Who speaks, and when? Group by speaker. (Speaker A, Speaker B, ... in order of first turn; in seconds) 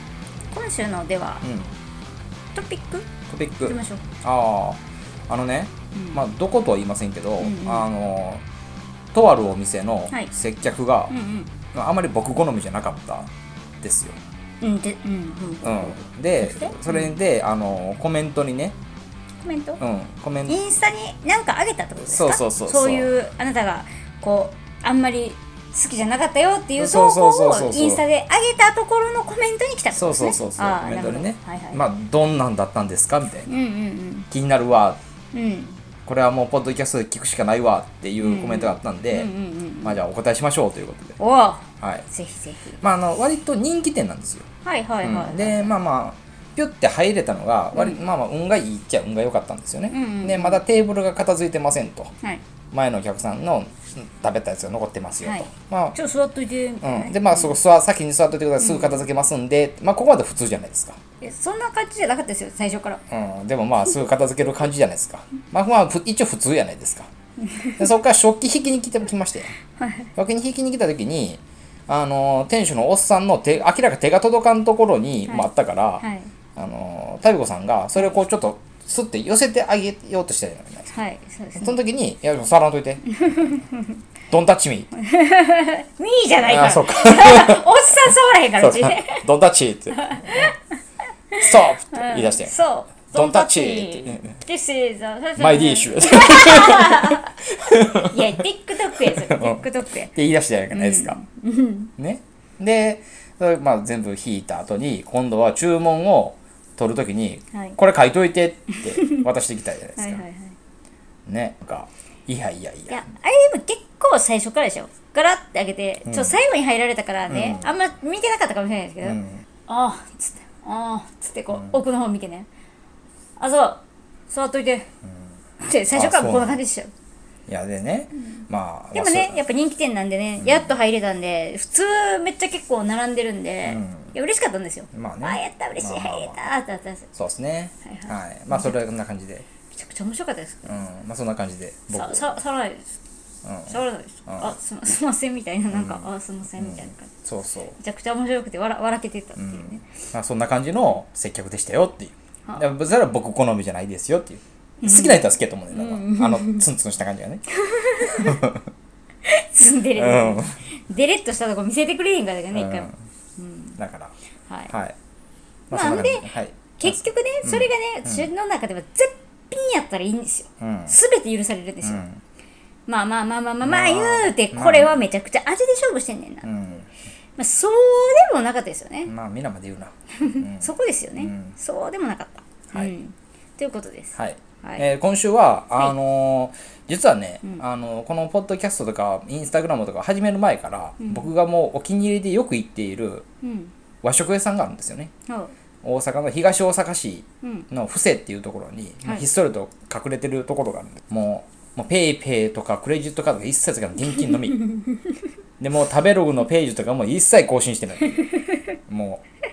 Speaker A: 0.5-1.4, 2.5-3.1, 3.6-4.0, 5.9-6.2, 7.4-7.9, 11.1-11.5, 14.6-17.2, 19.4-19.8, 20.5-31.9, 33.5-34.3, 35.3-35.8, 38.2-40.0, 41.2-42.8, 44.6-45.8, 47.7-48.0, 49.9-50.6, 55.2-57.6, 58.6-59.0, 61.2-63.0, 67.4-67.9, 69.8-70.1, 75.3-76.3, 80.9-81.8, 83.2-84.0, 85.0-89.3, 89.9-90.8, 91.3-100.1, 100.7-101.9, 107.5-107.8, 108.8-109.3, 110.0-110.5, 112.9-122.5, 123.4-124.9, 125.6-126.9, 128.9-137.1, 137.8-138.8, 139.7-140.9, 141.9-142.9, 143.7-147.1, 147.8-149.8, 154.8-156.7, 157.6-158.4, 159.3-163.8, 164.5-164.7, 165.7-172.1, 172.9-176.5, 177.4-179.1, 180.2-184.9, 191.0-191.3, 193.4-193.7, 195.3-195.5
Speaker B: 1.4-1.7, 3.3-8.4, 9.1-11.1, 11.7-13.3, 13.8-14.2, 15.6-18.8, 19.8-20.6, 22.0-23.1, 26.8-28.0, 29.9-33.5, 34.3-35.0, 36.0-39.3, 39.8-41.2, 41.8-42.1, 42.8-44.5, 45.0-52.1, 52.7-56.0, 56.8-61.0, 63.1-67.1, 67.8-69.6, 70.2-76.0, 76.6-80.9, 81.6-83.2, 84.3-84.9, 86.4-87.7, 88.6-90.4, 91.4-94.3, 95.4-98.4, 99.0-101.2, 102.0-110.2, 111.3-113.0, 116.0-116.4, 117.3-117.8, 119.0-119.4, 121.5-121.8, 125.9-126.6, 127.5-129.4, 130.4-130.7, 133.7-134.1, 134.9-136.4, 137.1-139.5, 140.7-142.4, 143.4-144.6, 145.7-147.8, 149.4-157.4, 158.0-158.7, 159.9-160.6, 162.5-162.9, 163.8-164.2, 164.7-165.0, 165.7-168.3, 170.6-171.0, 171.8-172.2, 173.6-175.0, 176.4-176.9, 179.1-181.6, 184.2-193.3, 194.0-195.1, 195.8-204.7, 205.6-208.2, 208.9-209.2